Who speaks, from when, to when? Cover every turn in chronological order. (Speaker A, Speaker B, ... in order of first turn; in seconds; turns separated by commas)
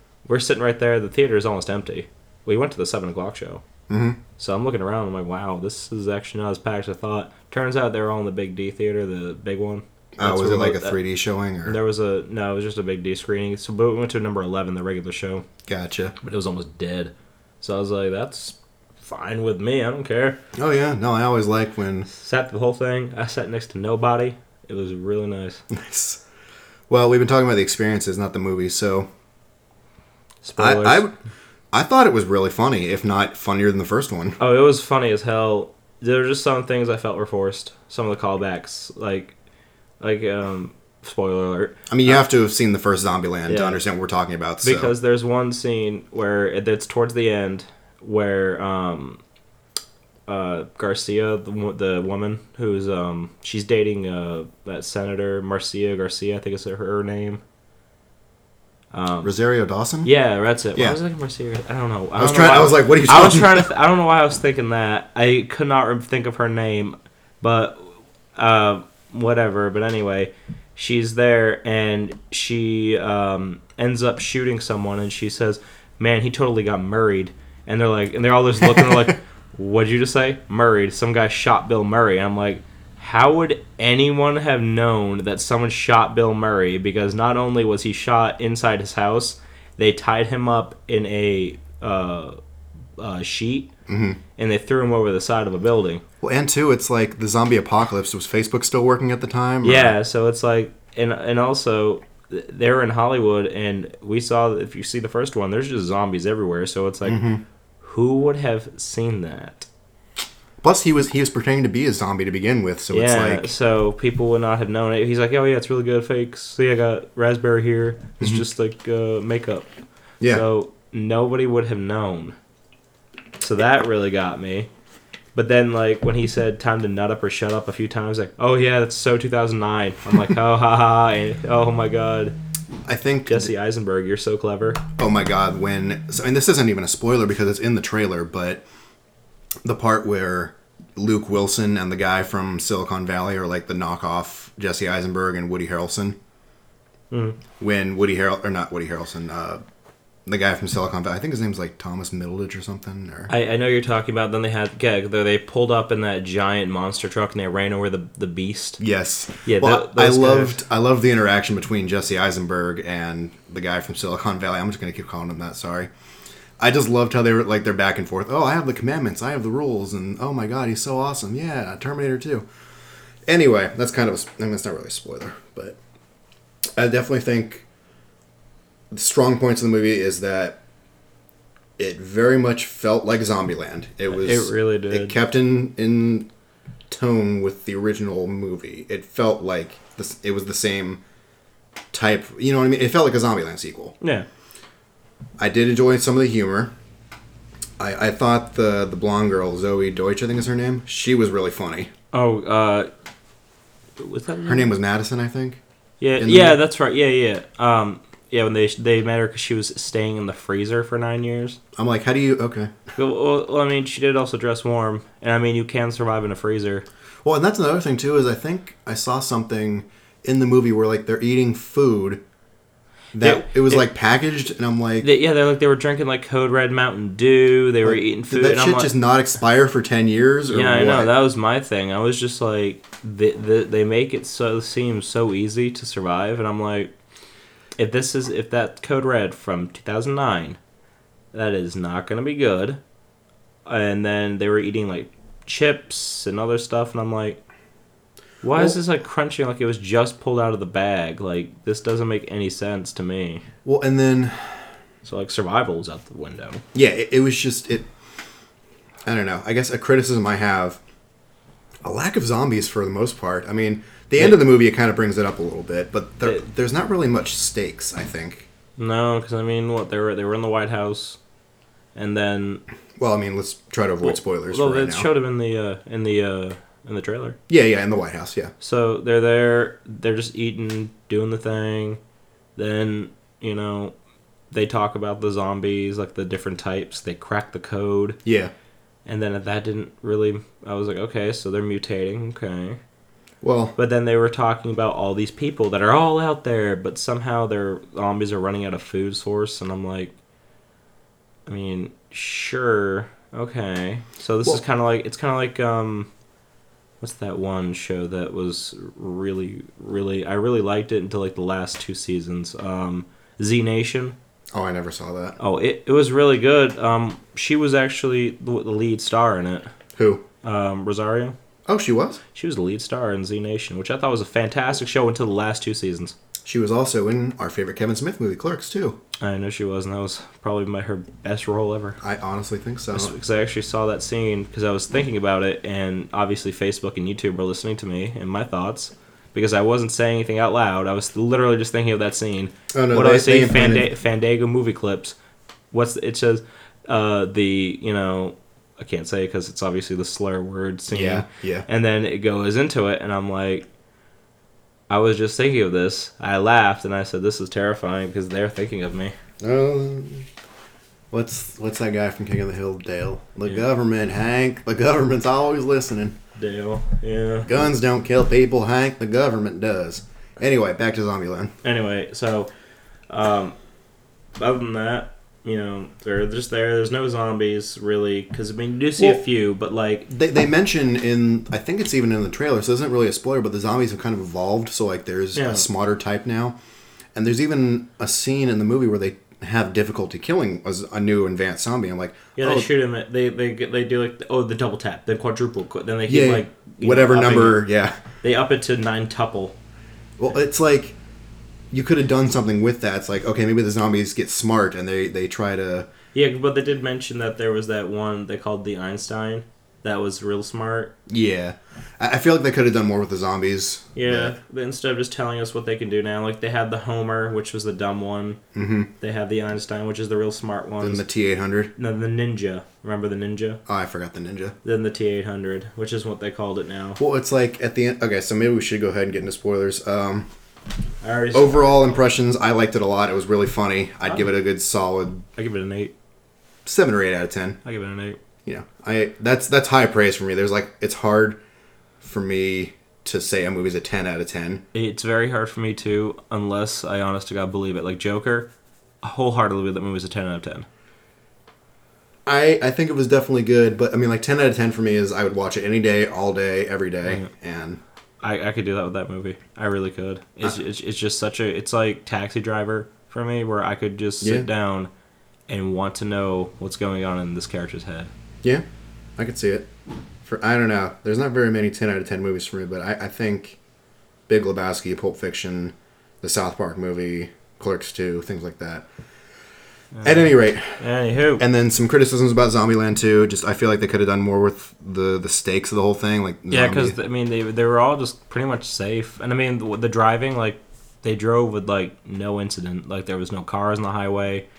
Speaker A: 0.2-3.6, Speaker B: 3.9-4.2, Speaker A: 4.4-11.0, Speaker B: 10.2-11.8, Speaker A: 11.6-15.4, Speaker B: 15.7-16.1, Speaker A: 16.2-20.4, Speaker B: 20.6-22.1, Speaker A: 22.1-25.6, Speaker B: 25.7-26.2, Speaker B: 26.9-29.1, Speaker A: 30.4-31.0, Speaker B: 30.6-31.1, Speaker B: 31.7-34.4, Speaker A: 34.4-39.3, Speaker A: 40.0-42.2, Speaker B: 41.9-44.9, Speaker A: 43.5-43.8, Speaker A: 44.6-49.2, Speaker A: 50.3-57.4, Speaker A: 58.9-59.3, Speaker B: 59.2-60.1, Speaker A: 60.0-92.4, Speaker B: 62.2-63.7, Speaker A: 93.0-93.7, Speaker B: 93.9-94.2, Speaker A: 94.4-96.0, Speaker B: 96.2-99.9, Speaker A: 99.6-107.2, Speaker B: 107.0-107.4, Speaker A: 107.8-109.7, Speaker B: 110.6-113.5, Speaker A: 112.9-119.7, Speaker A: 120.3-122.3, Speaker A: 123.4-124.7, Speaker A: 125.3-132.3, Speaker B: 132.8-133.5, Speaker A: 133.3-134.8, Speaker B: 135.0-138.6, Speaker B: 139.6-146.2, Speaker A: 147.1-147.4, Speaker B: 147.6-149.6, Speaker B: 150.2-153.3, Speaker A: 153.3-158.8, Speaker B: 158.8-165.9, Speaker A: 159.4-160.6, Speaker B: 166.6-172.5, Speaker B: 173.2-175.8, Speaker B: 176.8-177.7, Speaker B: 178.9-180.6, Speaker B: 181.8-186.3, Speaker A: 184.1-185.2, Speaker B: 186.9-191.0, Speaker B: 191.9-193.9, Speaker A: 194.0-194.2, Speaker B: 195.4-196.7, Speaker B: 197.8-201.9, Speaker A: 202.1-202.9, Speaker A: 204.0-204.7, Speaker B: 204.4-205.6, Speaker A: 206.0-211.6, Speaker B: 206.2-206.6, Speaker B: 211.8-212.7, Speaker A: 212.9-216.8, Speaker B: 217.2-222.2, Speaker B: 223.1-225.1, Speaker A: 223.2-223.9, Speaker A: 225.0-228.9, Speaker B: 227.8-231.1, Speaker A: 230.5-236.9, Speaker A: 237.8-240.6, Speaker A: 241.3-242.8, Speaker A: 243.7-247.4, Speaker A: 248.4-253.4, Speaker B: 253.6-254.6, Speaker A: 255.0-256.6, Speaker B: 256.7-257.9, Speaker B: 259.0-260.8, Speaker B: 261.8-268.5, Speaker A: 268.8-271.2, Speaker A: 271.9-272.6, Speaker B: 273.0-275.1, Speaker A: 274.0-277.4, Speaker B: 277.5-278.5, Speaker A: 278.6-282.0, Speaker A: 282.6-283.9, Speaker A: 284.5-288.2, Speaker B: 288.2-288.5, Speaker A: 289.1-292.8, Speaker B: 293.4-293.7, Speaker A: 293.8-300.1, Speaker A: 301.5-306.1, Speaker A: 307.0-314.1, Speaker B: 314.5-315.4, Speaker A: 315.4-319.7, Speaker B: 319.9-320.2, Speaker A: 320.4-321.4, Speaker B: 321.7-322.2, Speaker A: 322.3-326.1, Speaker B: 326.4-329.0, Speaker A: 329.2-332.0, Speaker B: 332.0-333.1, Speaker A: 332.9-345.2, Speaker B: 342.7-343.9, Speaker A: 345.7-353.6, Speaker B: 350.9-351.6, Speaker A: 354.9-359.1, Speaker B: 359.4-360.3, Speaker B: 361.1-366.1, Speaker A: 366.4-367.5, Speaker B: 367.5-371.5, Speaker A: 371.6-372.5, Speaker A: 373.1-373.6, Speaker A: 374.4-380.1, Speaker B: 380.1-386.6, Speaker A: 385.3-385.6, Speaker B: 387.1-392.7, Speaker A: 392.4-397.6, Speaker B: 396.1-398.0, Speaker A: 398.2-399.6, Speaker B: 400.2-401.0, Speaker B: 401.7-405.9, Speaker A: 406.1-410.9, Speaker B: 411.1-414.3, Speaker A: 413.9-418.4, Speaker B: 418.5-418.9, Speaker A: 419.0-421.0, Speaker B: 420.8-421.7, Speaker A: 421.8-423.6, Speaker B: 423.7-424.5, Speaker A: 424.6-427.0, Speaker B: 427.0-430.3, Speaker A: 431.0-432.0, Speaker B: 431.3-435.2, Speaker A: 435.4-435.9, Speaker B: 436.6-437.6, Speaker A: 437.6-438.2, Speaker B: 438.4-441.4, Speaker B: 442.0-444.6, Speaker A: 444.7-448.5, Speaker A: 449.0-450.7, Speaker B: 452.2-457.8, Speaker A: 458.2-464.9, Speaker B: 464.2-464.5, Speaker A: 465.5-468.1, Speaker B: 469.2-469.7, Speaker B: 470.2-473.6, Speaker B: 474.3-478.9, Speaker A: 479.9-481.4, Speaker B: 480.0-480.8, Speaker B: 481.4-487.0, Speaker A: 486.5-494.4